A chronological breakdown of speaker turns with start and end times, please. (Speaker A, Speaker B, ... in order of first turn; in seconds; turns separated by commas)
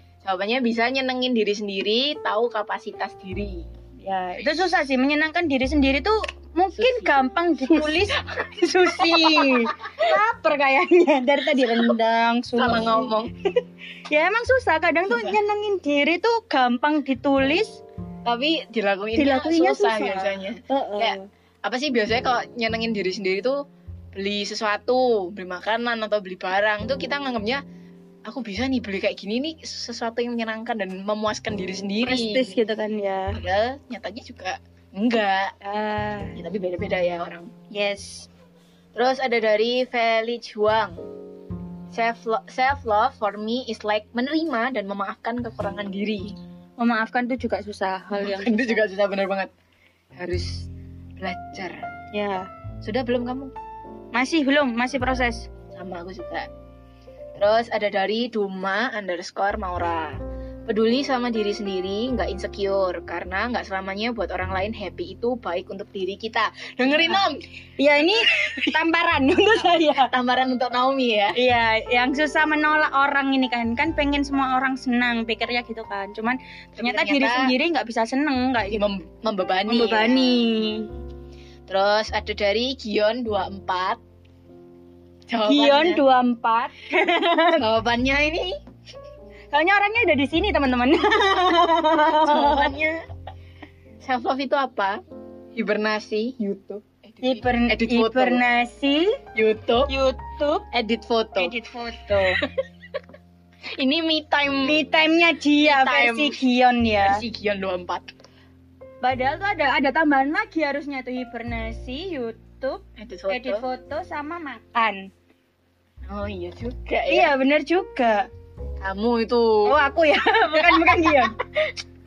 Speaker A: 0.2-3.7, Speaker B: 4.0-13.1, Speaker A: 6.8-7.1, Speaker A: 7.7-10.1, Speaker A: 12.6-13.3, Speaker B: 14.1-17.8, Speaker A: 15.1-15.4, Speaker A: 18.2-23.6, Speaker B: 19.2-21.3, Speaker A: 24.1-27.6, Speaker A: 28.2-32.6, Speaker B: 32.0-33.4, Speaker A: 33.3-35.5, Speaker B: 35.6-36.4, Speaker A: 36.3-37.5, Speaker B: 37.7-38.3, Speaker A: 38.9-41.0, Speaker A: 41.9-46.4, Speaker B: 46.8-48.8, Speaker A: 48.1-49.5, Speaker A: 50.1-51.8, Speaker B: 52.1-52.5, Speaker A: 52.8-53.5, Speaker B: 54.1-55.5, Speaker A: 55.7-56.5, Speaker A: 57.4-67.4, Speaker B: 66.9-67.2, Speaker B: 67.8-70.1, Speaker A: 70.0-71.4, Speaker B: 71.3-78.9, Speaker A: 76.8-77.5, Speaker A: 78.7-80.5, Speaker B: 79.7-80.9, Speaker A: 81.7-84.0, Speaker A: 85.3-86.0, Speaker B: 85.4-87.6, Speaker A: 87.6-88.5, Speaker B: 89.5-92.7, Speaker A: 92.2-93.0, Speaker A: 94.0-95.0, Speaker A: 95.5-98.4, Speaker B: 97.2-99.2, Speaker A: 99.3-99.9, Speaker B: 99.9-100.7, Speaker A: 100.7-101.5, Speaker B: 101.4-102.4, Speaker A: 103.7-104.8, Speaker B: 104.6-107.2, Speaker A: 105.6-106.4, Speaker A: 107.0-108.1, Speaker B: 109.0-115.1, Speaker A: 113.0-113.6, Speaker A: 116.0-117.3, Speaker B: 117.1-118.3, Speaker A: 118.8-119.7, Speaker B: 119.6-121.3, Speaker A: 120.5-121.7